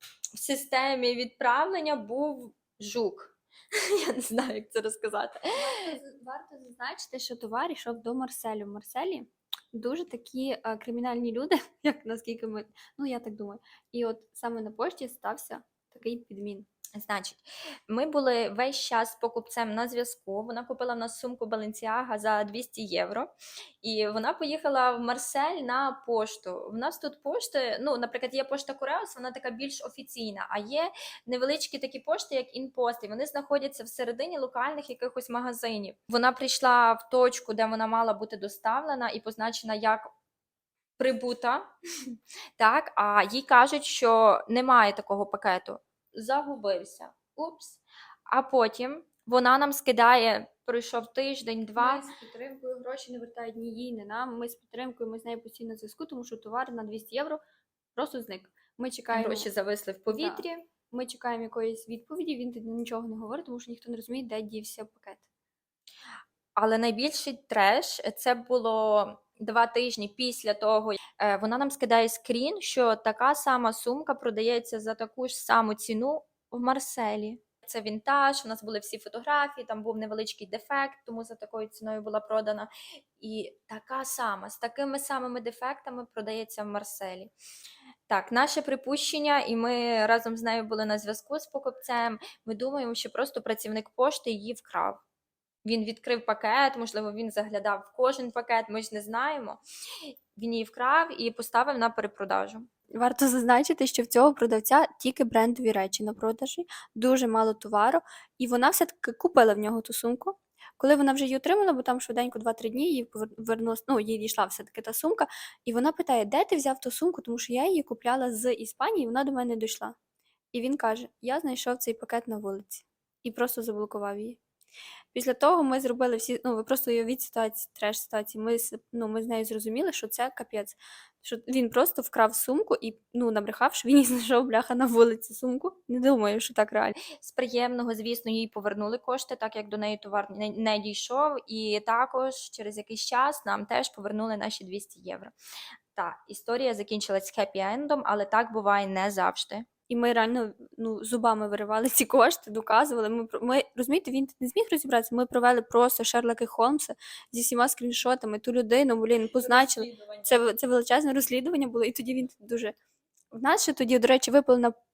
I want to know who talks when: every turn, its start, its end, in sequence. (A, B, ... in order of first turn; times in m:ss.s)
0:00.4-0:05.5 A
0:05.5-0:16.7 B
0:17.0-0:23.3 A
0:23.8-0:40.1 A
0:41.0-0:41.7 A
0:42.6-0:52.1 A
0:51.8-0:57.4 B
0:58.0-0:59.5 B
0:59.1-1:00.7 A
1:00.1-1:05.2 B
1:06.6-1:27.3 A
1:28.1-1:35.0 A
1:35.6-1:39.6 A
1:40.4-1:42.7 A
1:43.0-2:00.0 B
2:00.5-2:04.4 B
2:05.1-2:17.0 B
2:17.2-2:25.3 A
2:26.0-2:29.7 A
2:29.9-2:42.8 B
2:39.4-2:40.4 A
2:43.3-2:44.8 B